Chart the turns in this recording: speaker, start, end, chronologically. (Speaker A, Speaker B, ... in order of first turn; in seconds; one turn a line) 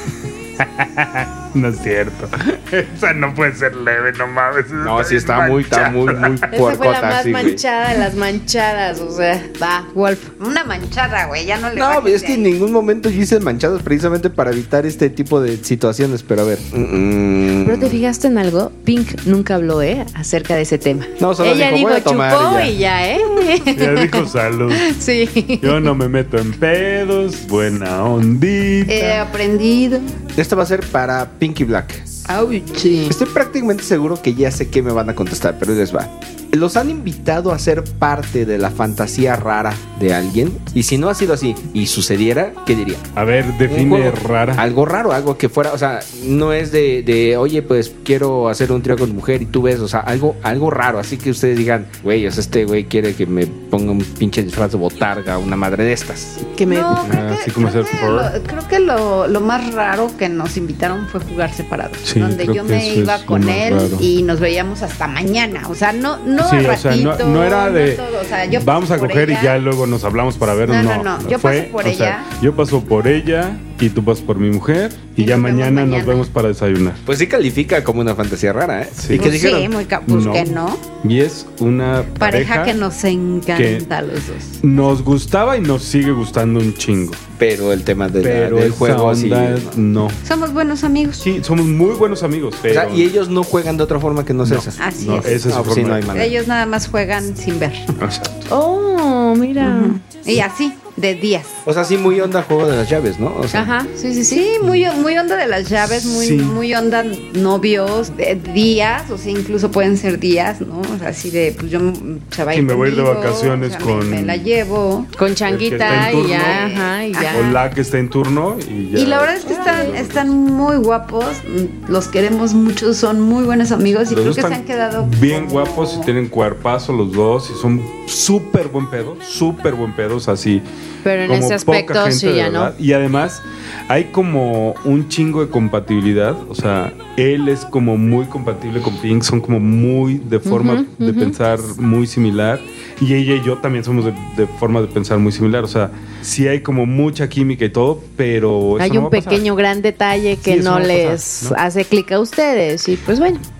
Speaker A: 0.6-6.4
Speaker B: 4.8-7.6
Speaker C: 6.5-9.9
Speaker D: 9.9-12.5
Speaker B: 11.7-18.0
Speaker C: 17.6-25.9
Speaker B: 21.2-22.8
Speaker A: 23.7-24.9
Speaker A: 25.6-29.2
Speaker D: 28.9-30.1
Speaker B: 30.3-32.0
Speaker D: 32.3-33.1
Speaker B: 33.1-43.1
Speaker A: 43.1-44.6
Speaker B: 43.6-56.5
Speaker C: 56.5-57.0
Speaker D: 56.7-69.5
Speaker A: 57.0-58.3
Speaker A: 62.0-64.1
Speaker A: 66.4-77.0
Speaker D: 70.7-72.3
Speaker D: 75.2-76.3
Speaker B: 77.0-79.7
Speaker A: 79.0-79.4
Speaker D: 79.1-80.8
Speaker A: 80.0-82.8
Speaker D: 82.2-84.6
Speaker A: 83.5-83.9
Speaker A: 84.6-87.2
Speaker B: 87.4-89.8
Speaker A: 88.2-90.2
Speaker D: 90.2-91.2
Speaker A: 91.2-93.1
Speaker B: 92.7-96.3
Speaker A: 94.4-96.2
Speaker D: 94.8-95.4
Speaker D: 96.1-97.9
Speaker A: 98.0-98.5
Speaker C: 98.5-100.0
Speaker D: 99.6-101.6
Speaker B: 101.6-103.7
Speaker C: 103.5-104.5
Speaker D: 104.3-115.1
Speaker A: 105.8-106.6
Speaker A: 112.5-114.5
Speaker C: 115.2-117.6
Speaker A: 115.5-116.7
Speaker D: 115.8-117.5
Speaker A: 117.3-120.3
Speaker D: 118.9-126.1
Speaker C: 119.5-119.9
Speaker A: 124.1-130.6
Speaker C: 131.0-132.7
Speaker A: 131.2-149.4
Speaker C: 140.4-141.3
Speaker C: 148.8-153.4
Speaker A: 150.4-151.6